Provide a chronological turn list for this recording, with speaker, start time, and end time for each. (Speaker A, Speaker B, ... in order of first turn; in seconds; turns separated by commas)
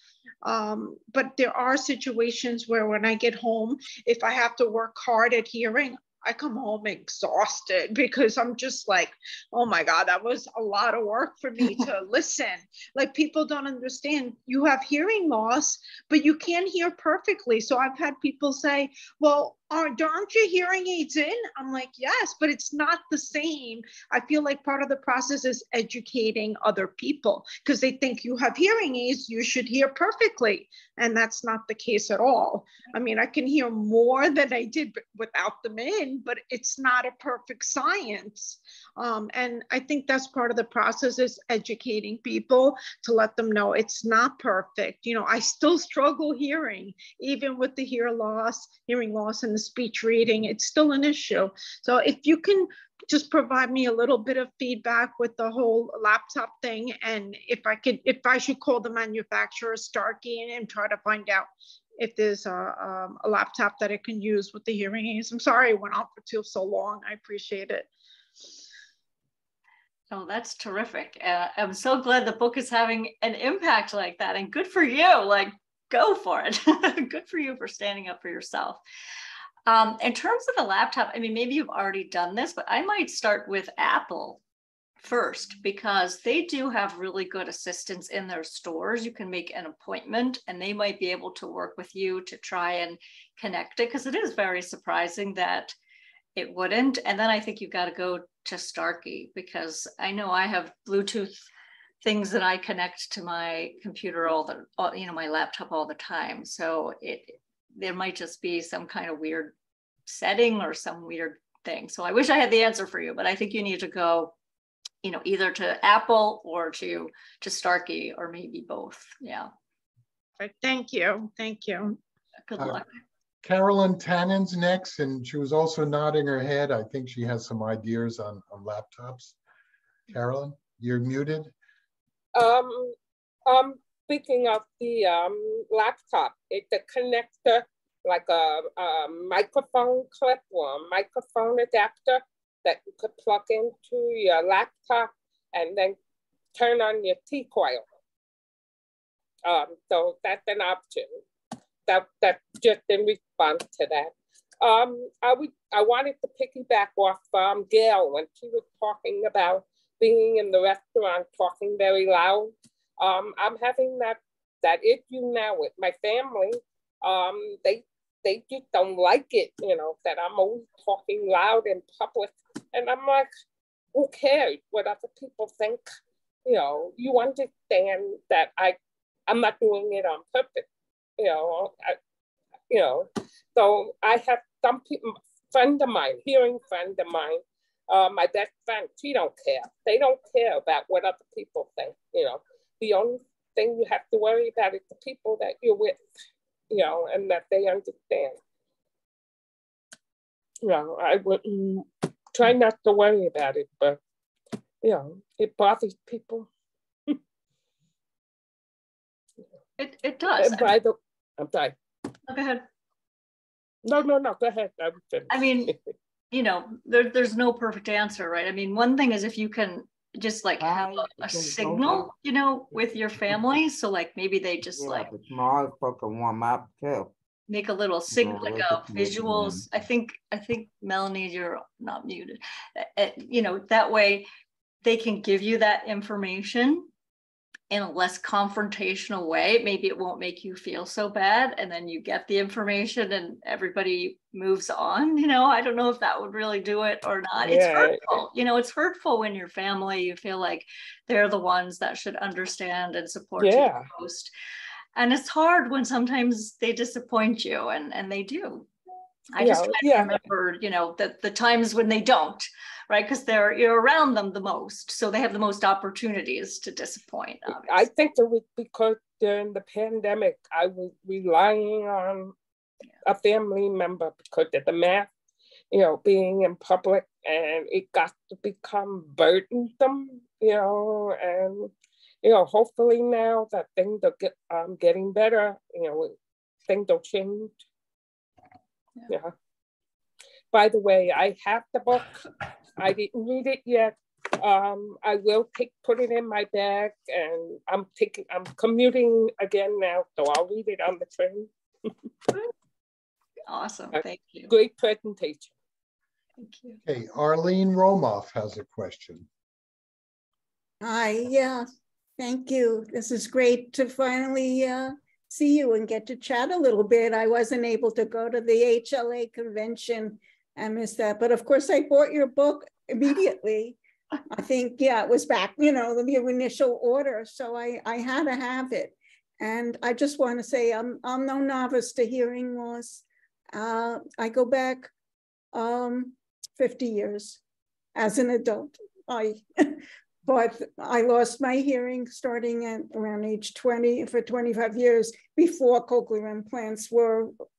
Speaker A: 0.4-67.9, Speaker B: 70.1-78.8, Speaker B: 79.7-84.4, Speaker B: 85.0-95.7, Speaker B: 96.3-101.4, Speaker B: 102.0-109.5, Speaker B: 110.1-114.3, Speaker B: 115.0-119.5, Speaker A: 120.4-122.0, Speaker B: 122.5-122.9, Speaker C: 123.4-129.4, Speaker C: 130.1-131.5, Speaker D: 132.3-132.9, Speaker D: 133.5-146.0, Speaker D: 146.6-147.9, Speaker D: 149.4-151.2, Speaker D: 151.9-173.3, Speaker D: 173.9-175.8, Speaker D: 176.5-178.8, Speaker D: 179.3-180.7, Speaker D: 181.2-182.0, Speaker D: 182.7-196.0, Speaker D: 196.7-198.4, Speaker D: 200.6-204.0, Speaker D: 204.8-206.5, Speaker B: 209.8-210.7, Speaker D: 210.4-211.7, Speaker B: 212.3-212.7, Speaker D: 213.8-215.8, Speaker B: 215.3-215.7, Speaker B: 216.3-225.1, Speaker E: 220.6-222.1, Speaker E: 224.8-227.1, Speaker B: 227.5-234.3, Speaker E: 228.1-229.7, Speaker B: 234.8-236.9, Speaker B: 237.7-254.3, Speaker D: 247.4-248.2, Speaker D: 253.4-253.9, Speaker B: 255.0-258.7, Speaker B: 259.3-267.8, Speaker D: 259.4-260.2, Speaker D: 267.6-272.3, Speaker D: 273.1-275.1, Speaker D: 275.7-281.7, Speaker D: 282.2-286.1, Speaker D: 286.7-287.6, Speaker D: 289.1-289.3, Speaker D: 290.5-292.2, Speaker D: 292.8-301.5, Speaker B: 303.5-304.5, Speaker D: 304.5-305.5, Speaker B: 306.4-306.8, Speaker C: 306.8-309.3, Speaker F: 310.8-323.8, Speaker F: 324.3-334.9, Speaker F: 335.5-337.4, Speaker F: 337.9-347.3